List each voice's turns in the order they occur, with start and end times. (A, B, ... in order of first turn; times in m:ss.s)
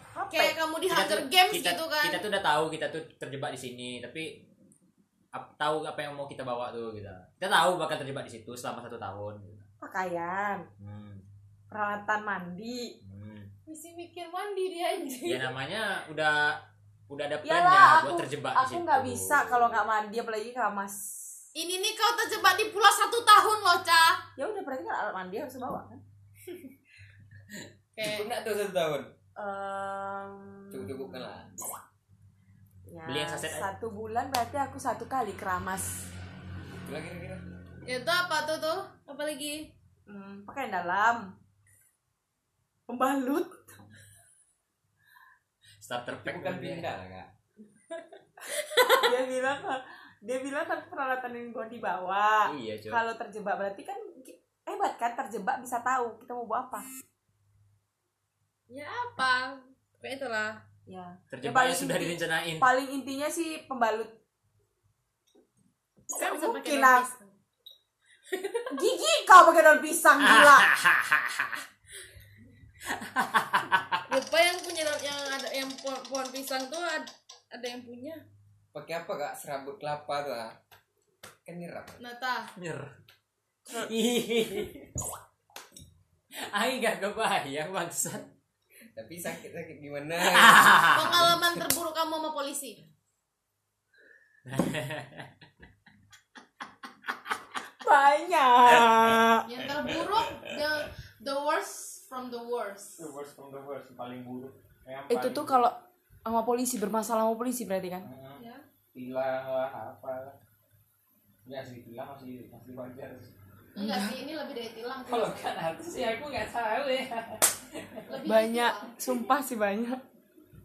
0:00.1-0:00.6 A
0:00.3-0:02.2 B
0:00.9-0:04.4 C
0:05.3-0:09.6 C
0:09.8-0:10.7 A
0:10.8-0:11.2 C
0:11.7-0:12.9 A
0:13.0-0:13.5 C
0:13.6-0:15.5 B
0:15.2-0:19.8 C
0:17.4-0:21.1 A
0:21.5-0:24.2 B
0:24.4-0:26.0 A
0:28.0-0:28.3 B
0:28.0-0:29.1 D
0:29.4-0:31.2 A
0:30.7-0:31.7 D
0:32.9-0:36.0 A
0:33.0-0:33.7 C
0:36.8-0:37.4 D
0:37.8-0:39.7 B
0:40.1-0:41.3 A
0:42.9-0:43.8 A
0:45.8-0:46.9 C
0:46.1-0:47.3 D
0:48.5-0:49.0 B
0:48.9-0:56.9 A
0:52.4-0:53.0 C
0:58.7-1:00.6 B
1:00.8-1:04.1 A
1:01.3-1:02.7 C
1:06.1-1:07.1 A
1:06.2-1:07.3 B
1:08.3-1:08.7 B
1:08.7-1:10.7 A
1:10.2-1:11.6 C
1:12.8-1:14.0 C
1:14.1-1:18.2 B
1:18.7-1:20.5 D
1:21.4-1:22.0 D
1:22.0-1:22.5 B
1:22.6-1:22.9 C
1:23.7-1:24.9 C
1:26.4-1:28.3 C
1:29.0-1:31.3 D
1:30.2-1:31.4 C
1:30.9-1:32.8 B
1:34.4-1:35.3 C
1:37.8-1:39.5 A
1:39.4-1:43.0 B
1:39.6-1:40.6 C
1:43.0-1:45.6 C
1:45.1-1:48.1 A
1:48.0-1:48.4 C
1:48.4-1:48.6 B
1:48.9-1:50.4 C
1:51.4-1:53.3 C
1:53.7-1:55.6 B
1:53.8-1:54.1 A
1:55.0-1:58.2 C
1:58.1-1:59.2 B
1:58.3-2:00.0 A